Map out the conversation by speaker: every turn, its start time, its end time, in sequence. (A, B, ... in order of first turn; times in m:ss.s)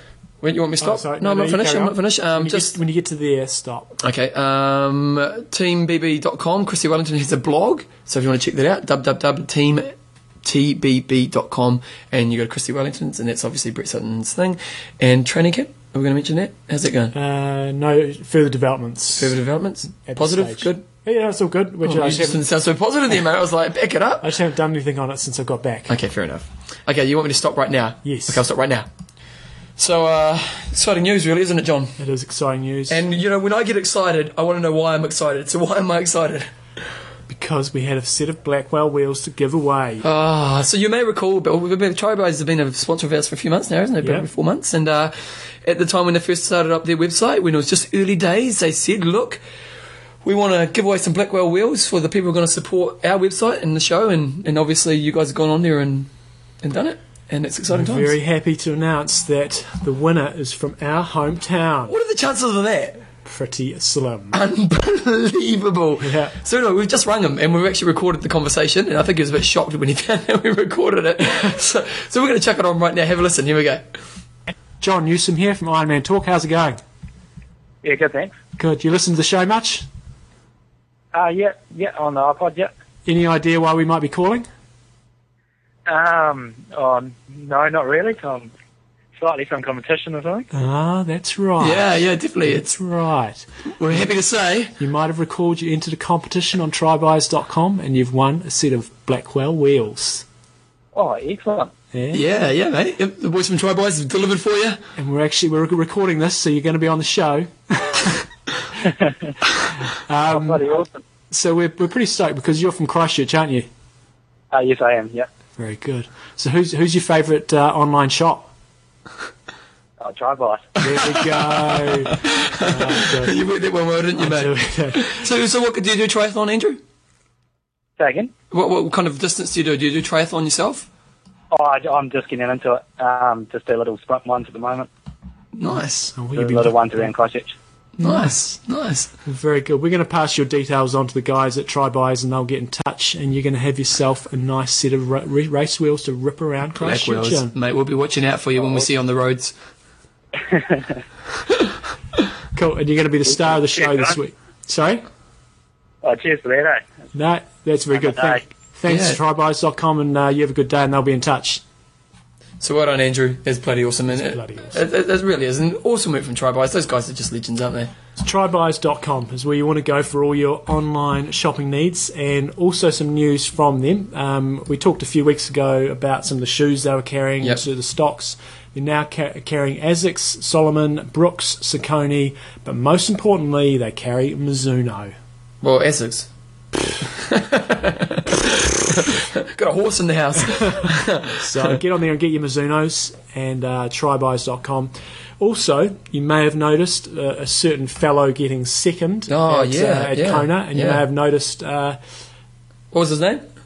0:00.4-0:02.8 A
0:00.8-0:04.0 B
0:04.0-0:17.1 A
0:17.1-0:19.4 B
0:19.2-0:20.8 A
0:19.9-0:22.4 B
0:21.8-0:24.3 A
0:24.2-0:26.0 B
0:25.9-0:28.9 A
0:28.0-0:28.4 B
0:29.8-0:32.0 A
0:32.0-0:33.0 B
0:32.9-0:36.5 A
0:37.3-0:40.0 B
0:40.0-0:49.4 A
0:44.0-0:44.3 B
0:50.2-0:56.1 A
0:56.6-0:58.2 A
0:57.7-1:01.9 B
1:01.9-1:03.0 A
1:03.2-1:04.4 B
1:04.3-1:14.0 A
1:06.0-1:06.3 B
1:14.8-1:16.8 B
1:17.8-1:18.3 C
1:18.6-1:19.8 B
1:21.1-1:22.7 C
1:23.0-1:24.4 B
1:25.8-1:28.5 C
1:29.2-1:30.5 C
1:30.5-1:31.9 B
1:31.6-1:32.8 A
1:32.4-1:33.4 B
1:33.7-1:34.7 A
1:34.8-1:40.2 B
1:40.9-1:41.7 C
1:41.9-1:42.2 B
1:42.1-1:44.8 A
1:45.0-1:48.2 B
1:49.8-1:50.6 B
1:50.3-1:50.9 C
1:51.3-1:53.7 B
1:54.5-1:55.3 C
1:55.6-1:58.5 B
2:00.0-2:00.7 C
2:00.8-2:03.4 B
2:00.8-2:06.8 A
2:04.2-2:05.2 B
2:08.0-2:08.3 C
2:08.5-2:10.9 A
2:11.5-2:14.9 C
2:15.6-2:16.1 A
2:16.1-2:17.1 B
2:16.4-2:17.5 C
2:18.0-2:19.1 A
2:18.0-2:18.3 B
2:19.2-2:27.5 B
2:26.8-2:29.5 A
2:30.5-2:31.0 C
2:32.5-2:35.0 B
2:36.0-2:36.8 C
2:37.1-2:41.6 B
2:38.0-2:38.4 C
2:38.9-2:39.2 A
2:42.6-2:47.9 A
2:44.1-2:44.8 B
2:48.2-3:05.1 B
3:05.6-3:06.3 A
3:07.0-3:11.8 A
3:10.6-3:22.0 B
3:19.3-3:21.0 A
3:22.9-3:23.4 A